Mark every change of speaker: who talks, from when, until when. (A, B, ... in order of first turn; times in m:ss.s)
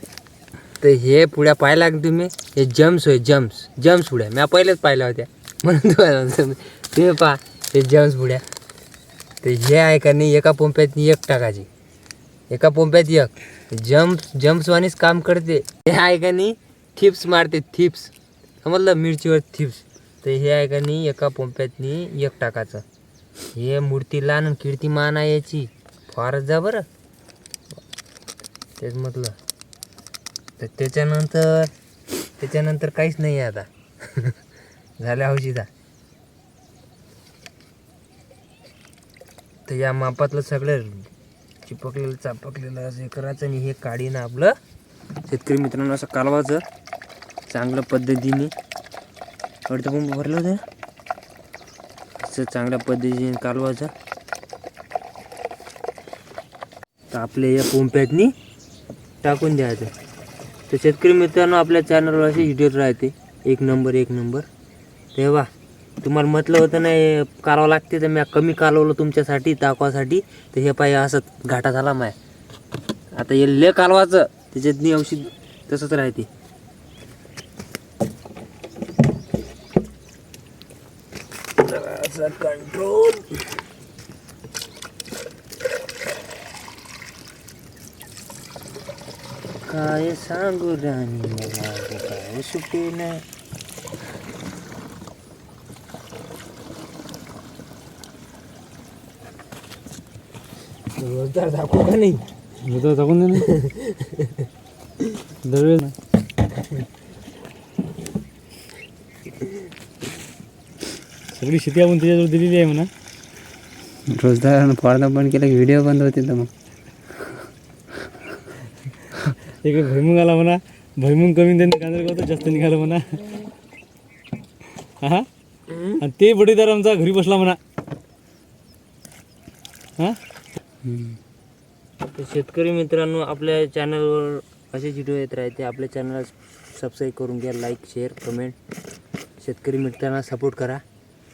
0:00.8-0:08.4 A
0:09.4-0:11.7 A
0:12.5-0:18.1 A
0:18.6-0:22.8 A
0:23.5-0:26.8 A
0:28.8-0:29.4 A
0:30.6-0:31.7 A
0:32.4-0:34.4 A
0:35.0-0:35.7 A
0:39.6-0:41.1 A
0:41.6-0:44.6 A
0:45.2-0:46.6 A
0:47.5-0:48.5 A
0:49.7-0:50.6 A
0:52.2-0:53.9 A
0:57.1-0:58.3 A
0:59.2-0:59.9 A
1:00.7-1:04.4 A
1:05.1-1:05.5 A
1:06.0-1:12.2 A
1:13.1-1:16.3 A
1:21.6-1:23.5 A
1:29.6-1:33.2 A
1:41.0-1:42.3 A
1:42.6-1:43.5 B
1:43.3-1:44.4 A
1:45.4-1:45.9 B
1:51.3-1:52.9 B
1:54.1-1:56.5 C
1:59.6-2:03.4 B
2:05.0-2:05.3 B
2:05.7-2:06.0 A
2:06.0-2:07.6 B
2:10.8-2:11.2 C
2:12.0-2:18.6 A
2:19.4-2:20.8 A